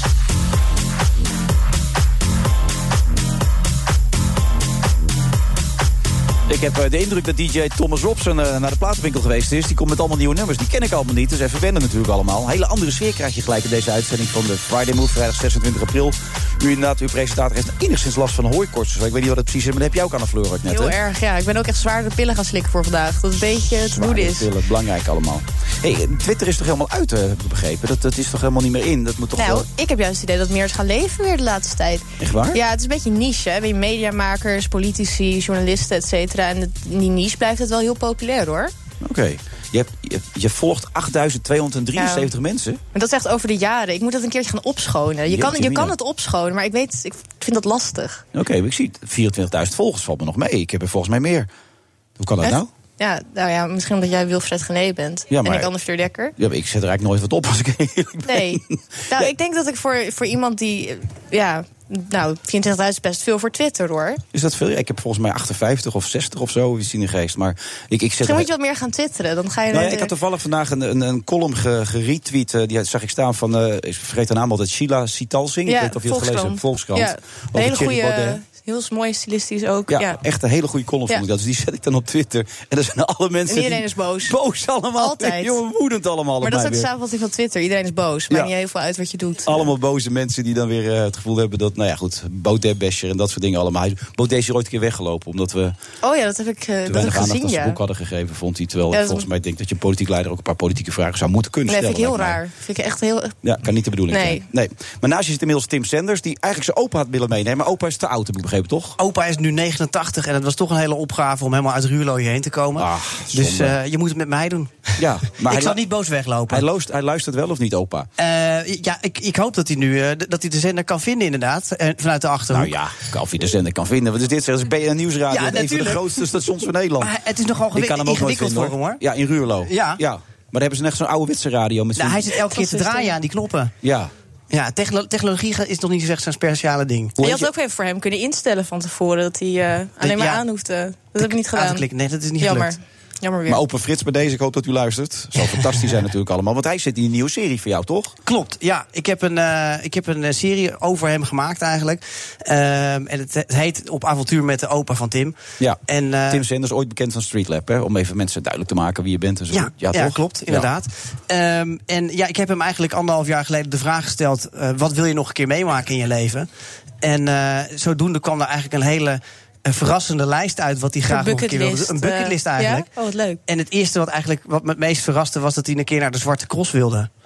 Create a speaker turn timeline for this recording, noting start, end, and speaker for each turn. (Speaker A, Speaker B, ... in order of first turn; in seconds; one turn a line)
Speaker A: 6.5-20.9
Speaker B: 20.7-24.5
Speaker A: 23.9-29.7
Speaker B: 29.4-38.7
Speaker A: 32.2-32.6
Speaker A: 39.0-42.8
Speaker B: 42.0-42.3
Speaker B: 42.9-48.2
Speaker A: 45.3-45.9
Speaker A: 48.3-51.5
Speaker A: 52.2-52.7
Speaker B: 52.4-56.3
Speaker A: 55.3-55.7
Speaker A: 56.4-59.3
Speaker B: 58.2-64.2
Speaker A: 64.3-68.5
Speaker B: 68.2-70.1
Speaker A: 69.7-78.4
Speaker B: 75.7-80.2
Speaker A: 79.9-86.9
Speaker B: 83.5-84.3
Speaker B: 85.0-85.6
Speaker B: 86.4-89.7
Speaker A: 89.4-95.7
Speaker B: 96.0-97.8
Speaker A: 96.9-102.4
Speaker B: 98.9-99.3
Speaker B: 101.7-103.3
Speaker A: 103.4-109.0
Speaker B: 104.1-104.4
Speaker C: 109.0-116.6
Speaker A: 112.8-113.7
Speaker A: 115.0-115.8
Speaker A: 116.5-118.1
Speaker C: 118.2-122.7
Speaker A: 122.5-127.1
Speaker C: 125.3-126.2
Speaker C: 127.0-129.0
Speaker A: 127.7-132.3
Speaker C: 129.6-130.0
Speaker C: 132.0-133.7
Speaker B: 132.5-133.1
Speaker A: 133.8-134.1
Speaker C: 134.5-137.1
Speaker A: 137.2-137.5
Speaker B: 137.2-141.8
Speaker C: 140.0-140.4
Speaker C: 141.2-142.7
Speaker B: 142.4-143.6
Speaker A: 143.5-148.1
Speaker C: 148.2-155.3
Speaker A: 155.6-160.7
Speaker C: 155.9-156.4
Speaker C: 159.5-166.5
Speaker C: 167.0-172.9
Speaker B: 171.1-173.4
Speaker C: 173.5-177.1